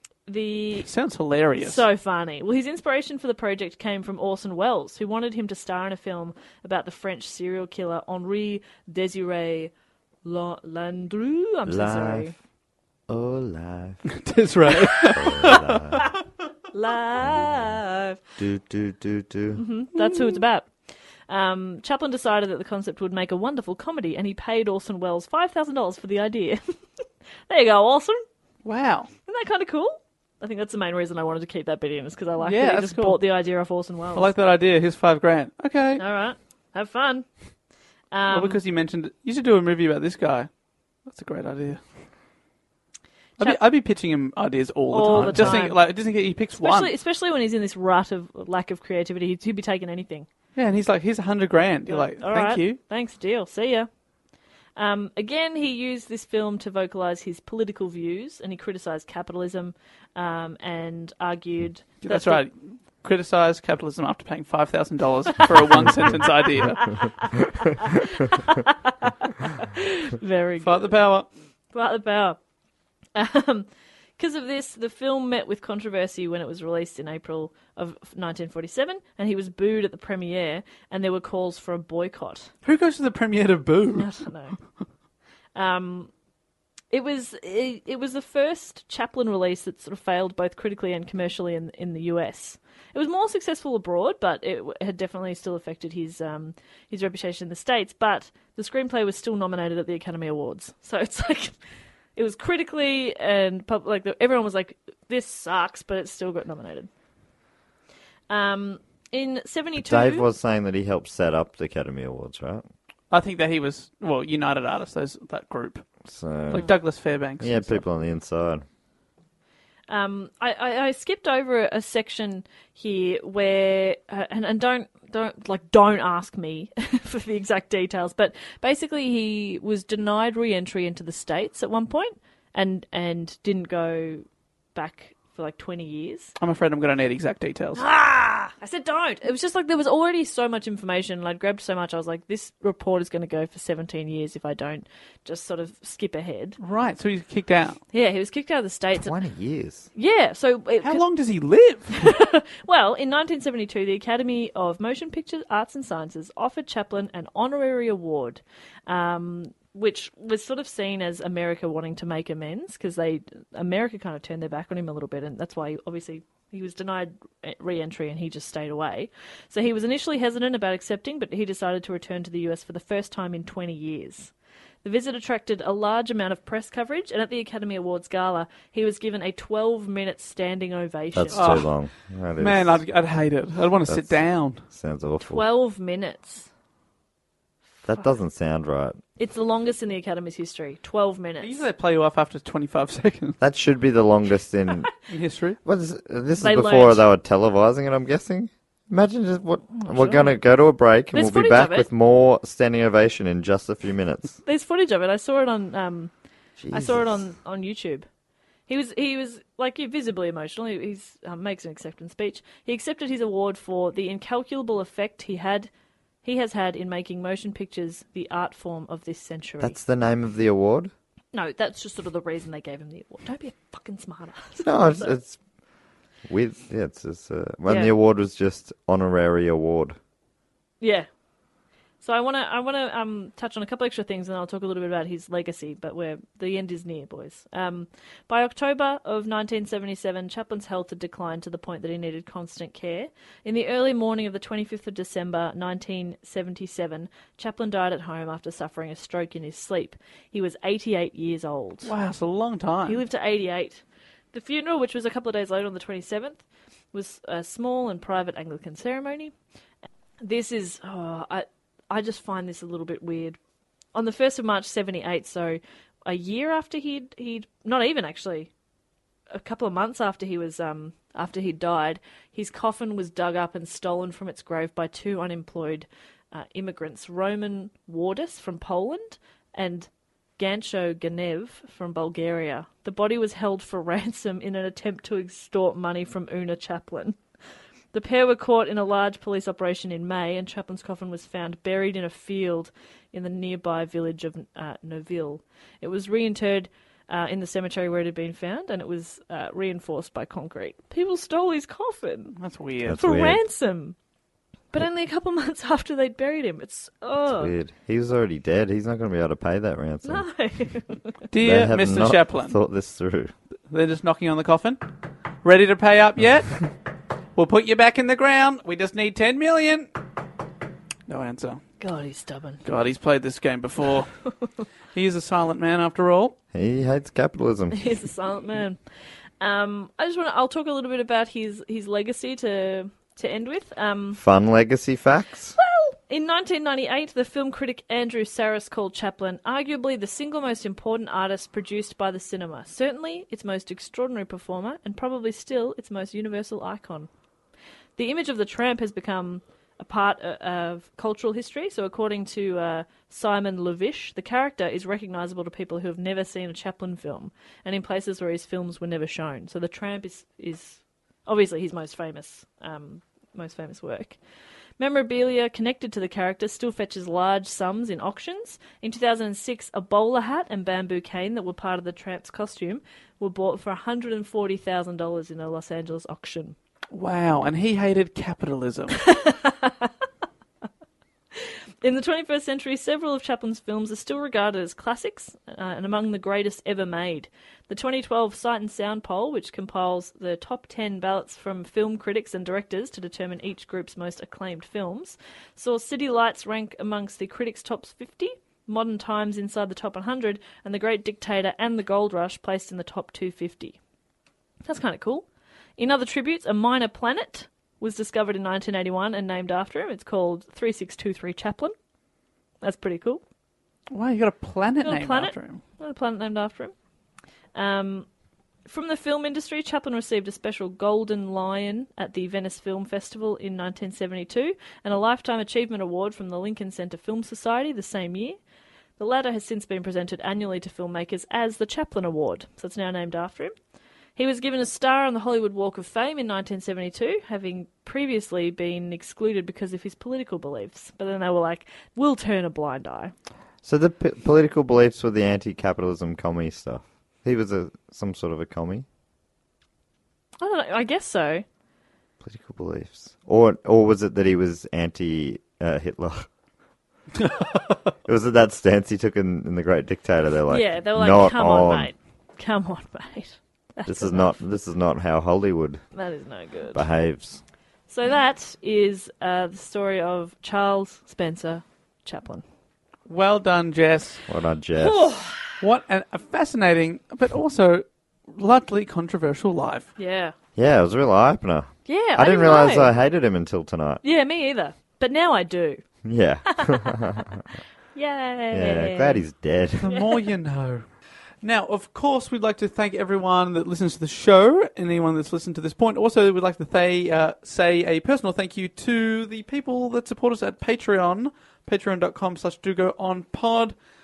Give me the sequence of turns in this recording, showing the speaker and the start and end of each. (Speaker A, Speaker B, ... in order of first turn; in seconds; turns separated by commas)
Speaker A: 0.3-0.9, Speaker B: 0.8-1.8, Speaker A: 1.6-9.7, Speaker A: 10.2-12.3, Speaker C: 11.7-12.3, Speaker C: 13.1-14.1, Speaker B: 14.2-15.8, Speaker C: 15.1-16.1, Speaker A: 16.7-18.2, Speaker C: 18.4-19.6, Speaker A: 19.5-20.7, Speaker A: 21.3-26.6, Speaker A: 27.5-28.2, Speaker B: 28.6-29.1, Speaker A: 29.3-34.3, Speaker B: 32.4-33.2, Speaker B: 34.1-36.0, Speaker A: 36.0-37.3, Speaker A: 38.1-38.6, Speaker B: 38.3-40.5, Speaker B: 41.0-41.8, Speaker B: 43.4-46.9, Speaker A: 44.9-45.8, Speaker A: 46.6-50.3, Speaker B: 50.5-52.8, Speaker A: 51.9-53.9, Speaker A: 54.8-62.4, Speaker B: 62.0-66.9, Speaker A: 65.8-71.0, Speaker B: 70.6-71.3, Speaker A: 71.7-72.4, Speaker A: 73.1-82.5, Speaker B: 82.6-84.1, Speaker A: 84.0-84.5, Speaker A: 85.5-86.1, Speaker A: 86.9-101.5, Speaker A: 102.1-106.9, Speaker A: 108.3-110.3, Speaker C: 109.8-112.7, Speaker B: 113.1-115.8, Speaker C: 116.0-116.7, Speaker B: 116.5-117.8, Speaker C: 117.4-118.6, Speaker A: 119.9-136.3, Speaker B: 136.4-137.8, Speaker A: 137.7-146.6, Speaker B: 146.6-147.8, Speaker A: 147.9-149.1, Speaker C: 148.9-149.9, Speaker A: 149.9-151.0, Speaker B: 150.8-152.2, Speaker A: 151.9-174.3, Speaker A: 174.8-181.6, Speaker C: 181.1-182.8, Speaker B: 181.3-181.7, Speaker B: 182.4-184.6, Speaker C: 183.9-185.4, Speaker A: 185.2-186.5, Speaker C: 187.8-189.0, Speaker A: 189.2-191.7, Speaker B: 191.4-193.4, Speaker C: 193.4-194.9, Speaker B: 195.1-195.6, Speaker C: 195.6-204.4, Speaker A: 196.4-197.0, Speaker A: 199.7-200.4, Speaker A: 201.1-201.9, Speaker A: 204.4-206.1, Speaker C: 206.6-207.2, Speaker A: 206.7-208.1, Speaker A: 208.7-215.7, Speaker A: 216.2-219.8, Speaker C: 219.6-220.9, Speaker A: 221.3-225.2, Speaker C: 224.6-225.4, Speaker C: 226.3-230.0, Speaker A: 227.7-227.9, Speaker A: 230.8-231.1, Speaker A: 232.0-251.9, Speaker B: 251.8-253.0, Speaker A: 252.8-253.8, Speaker A: 254.3-259.3, Speaker A: 260.2-263.4, Speaker A: 263.9-268.5, Speaker A: 269.3-287.2, Speaker A: 287.9-302.4, Speaker B: 302.4-303.0, Speaker C: 302.8-303.4, Speaker A: 303.0-303.9, Speaker A: 304.7-307.5, Speaker C: 307.2-310.2, Speaker A: 310.0-311.1, Speaker B: 311.3-312.6, Speaker C: 311.4-313.3, Speaker B: 313.7-314.8, Speaker B: 315.4-316.7, Speaker B: 317.4-319.9, Speaker B: 321.1-321.6, Speaker A: 321.8-322.6, Speaker B: 322.6-324.1, Speaker B: 324.9-326.3, Speaker C: 326.5-327.9, Speaker A: 327.7-328.8, Speaker A: 329.4-334.2, Speaker C: 334.1-335.6, Speaker A: 335.6-347.1, Speaker A: 348.0-364.2, Speaker A: 364.8-376.6, Speaker B: 376.9-379.0, Speaker A: 379.1-379.9, Speaker A: 381.3-403.8, Speaker A: 404.6-405.2, Speaker A: 405.8-411.7, Speaker A: 412.6-413.2, Speaker B: 413.9-415.6, Speaker A: 414.8-416.7, Speaker A: 417.5-418.1, Speaker A: 418.7-428.4, Speaker A: 429.0-433.5, Speaker A: 434.1-443.1, Speaker C: 443.6-448.9, Speaker A: 450.4-451.4, Speaker C: 452.2-456.3, Speaker C: 458.0-461.9, Speaker A: 460.5-464.3, Speaker C: 463.9-465.8, Speaker A: 465.9-466.8, Speaker C: 466.7-467.4, Speaker A: 467.9-472.4, Speaker B: 473.1-474.2, Speaker C: 474.3-475.1, Speaker A: 474.8-475.6, Speaker B: 475.6-479.9, Speaker A: 480.0-480.3, Speaker C: 480.6-484.0, Speaker A: 481.9-482.9, Speaker A: 484.0-485.8, Speaker C: 486.0-487.4, Speaker A: 487.9-489.2, Speaker C: 488.5-489.9, Speaker B: 489.8-490.8, Speaker A: 489.9-490.2, Speaker B: 491.4-503.7